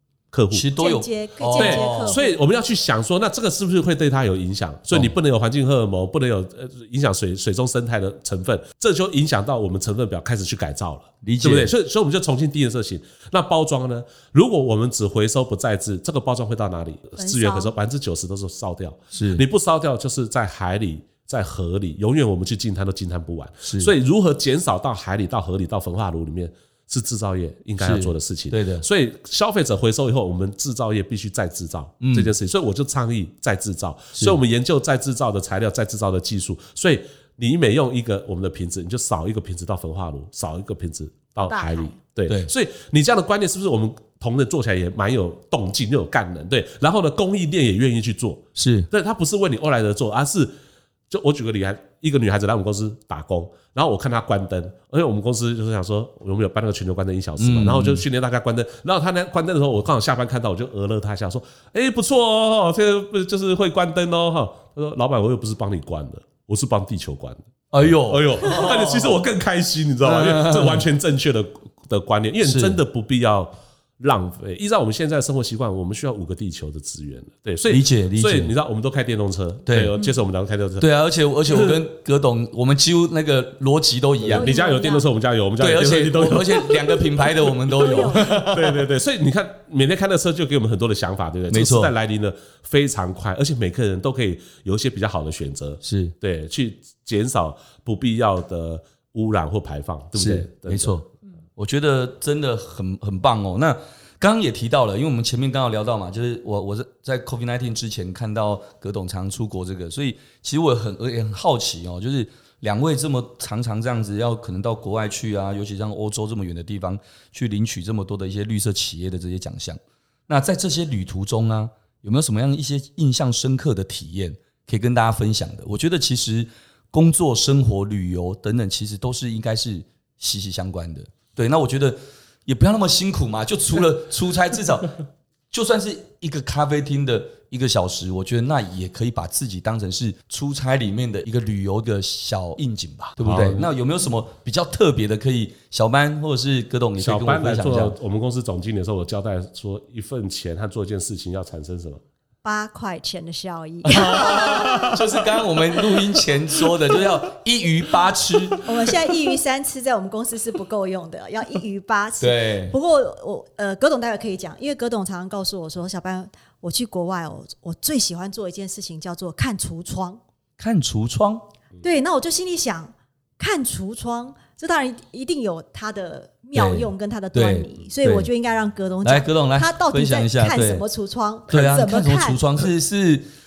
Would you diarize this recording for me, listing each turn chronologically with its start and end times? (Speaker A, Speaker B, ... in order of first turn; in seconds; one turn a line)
Speaker A: 0.3-0.7
Speaker B: 0.5-2.2
Speaker C: 0.8-2.5
Speaker A: 1.5-50.5
Speaker B: 11.2-11.7
Speaker C: 17.2-17.7
Speaker B: 19.1-19.4
Speaker B: 23.6-23.9
Speaker B: 27.8-28.9
Speaker B: 32.0-32.3
Speaker C: 41.5-42.0
Speaker B: 48.5-48.9
Speaker A: 51.1-80.9
Speaker B: 57.4-58.0
Speaker B: 67.7-69.2
Speaker B: 70.0-70.8
Speaker B: 72.4-72.8
Speaker B: 77.7-78.5
Speaker B: 79.7-79.9
Speaker B: 80.8-84.5
Speaker A: 81.5-81.8
Speaker A: 84.2-87.3
Speaker C: 84.3-85.1
Speaker B: 85.6-88.8
Speaker C: 87.8-88.3
Speaker A: 88.0-101.0
Speaker B: 91.5-91.9
Speaker B: 95.8-96.1
Speaker B: 100.2-135.0
Speaker B: 135.5-148.0
Speaker A: 143.2-143.7
Speaker A: 147.0-152.0
Speaker C: 152.4-155.0
Speaker B: 153.8-158.9
Speaker A: 154.2-155.1
Speaker C: 158.6-170.2
Speaker B: 162.2-162.8
Speaker B: 170.6-171.5
Speaker C: 171.8-182.4
Speaker B: 176.5-178.3
Speaker B: 179.0-180.8
Speaker B: 181.5-183.3